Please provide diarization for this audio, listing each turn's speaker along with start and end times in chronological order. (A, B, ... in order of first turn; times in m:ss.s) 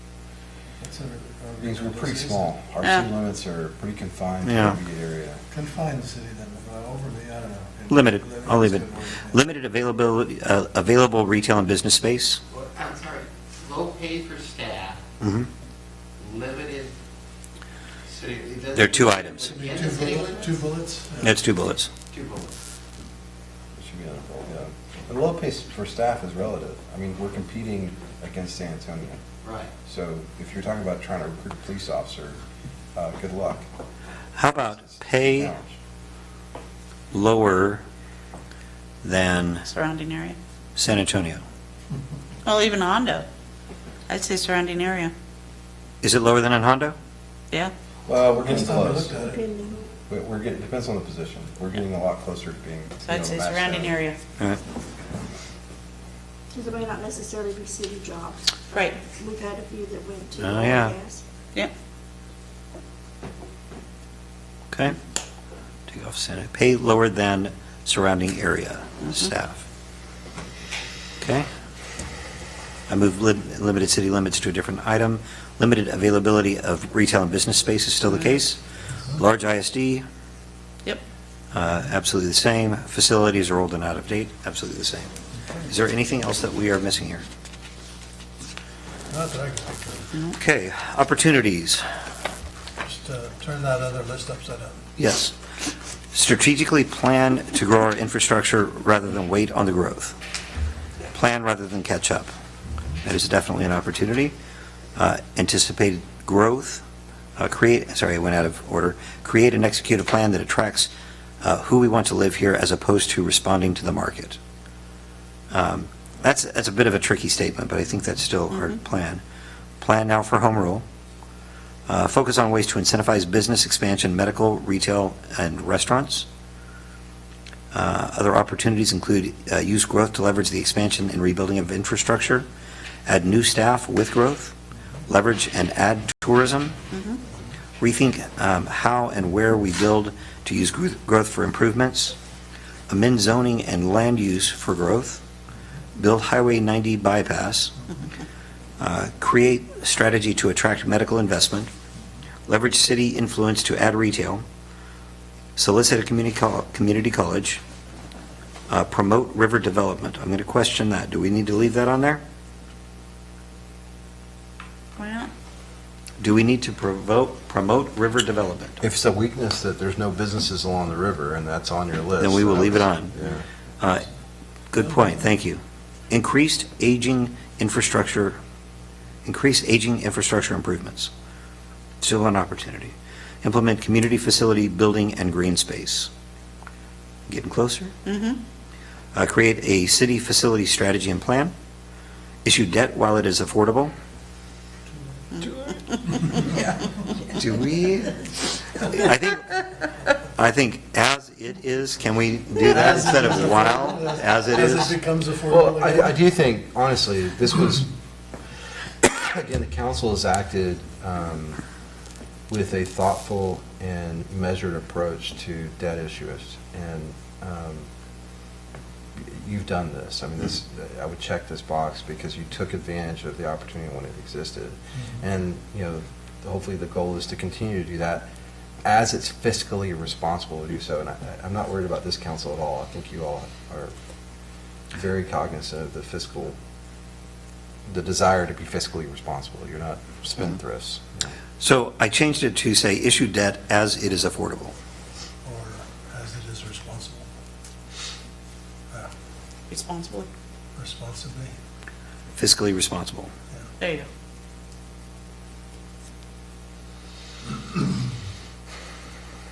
0:00.8-0:02.5 A
0:01.6-0:05.4 B
0:02.8-0:03.1 C
0:04.4-0:04.8 D
0:05.5-0:09.4 A
0:07.9-0:12.4 D
0:12.5-0:15.0 E
0:15.2-0:15.5 D
0:16.2-0:16.9 E
0:18.1-0:20.6 E
0:18.7-0:19.6 D
0:19.3-0:21.4 A
0:21.2-0:21.9 D
0:22.1-0:22.5 E
0:23.8-0:29.2 B
0:29.4-0:29.7 E
0:29.8-0:32.4 B
0:33.0-0:33.7 B
0:34.4-0:35.5 D
0:34.8-0:35.8 B
0:37.1-0:37.8 D
0:39.0-0:39.7 D
0:39.7-0:40.4 C
0:40.8-0:41.4 D
0:42.4-0:43.3 C
0:44.1-0:45.1 C
0:46.0-0:47.0 D
0:48.1-0:49.2 B
0:48.4-0:49.4 A
0:49.1-0:49.8 F
0:50.1-0:54.0 B
0:53.1-0:54.2 C
0:56.5-1:01.2 F
0:58.7-0:59.0 C
1:00.4-1:01.0 D
1:04.7-1:05.0 D
1:05.9-1:09.7 D
1:11.2-1:11.5 D
1:12.9-1:20.0 D
1:21.5-1:25.1 D
1:25.6-1:27.2 D
1:29.1-1:30.1 A
1:30.3-1:31.8 D
1:32.8-1:34.8 A
1:35.0-1:35.4 D
1:36.1-1:40.2 D
1:41.1-1:42.3 D
1:43.0-1:44.3 D
1:45.0-1:46.8 D
1:47.4-1:50.9 D
1:51.4-1:54.4 D
1:55.5-1:59.2 D
1:59.8-2:00.8 D
2:01.9-2:06.3 D
2:07.7-2:12.5 D
2:13.1-2:14.5 D
2:15.1-2:16.8 D
2:16.9-2:17.2 C
2:17.8-2:22.2 D
2:22.9-2:25.2 D
2:26.0-2:27.8 D
2:28.8-2:31.7 D
2:32.5-2:34.4 D
2:35.6-2:37.6 D
2:38.7-2:42.2 D
2:45.0-2:45.3 C
2:46.2-2:48.8 D
2:48.8-2:53.4 B
2:52.2-2:53.1 D
2:53.8-2:54.1 D
2:54.7-2:58.4 D
2:59.2-3:01.1 D
3:02.0-3:06.1 D
3:07.3-3:07.9 D
3:08.0-3:08.4 C
3:09.1-3:11.5 D
3:12.4-3:13.9 D
3:17.3-3:19.6 D
3:20.4-3:25.0 D
3:22.6-3:26.1 A
3:25.5-3:27.9 B
3:29.0-3:31.6 B
3:32.5-3:37.9 B
3:39.2-3:48.3 B
3:48.8-3:53.9 B
3:54.9-3:56.6 B
3:57.9-4:01.3 B
4:01.6-4:04.7 D
4:05.4-4:07.3 A
4:09.7-4:10.3 C
4:10.8-4:11.6 A
4:12.4-4:13.3 D
4:13.8-4:14.1 C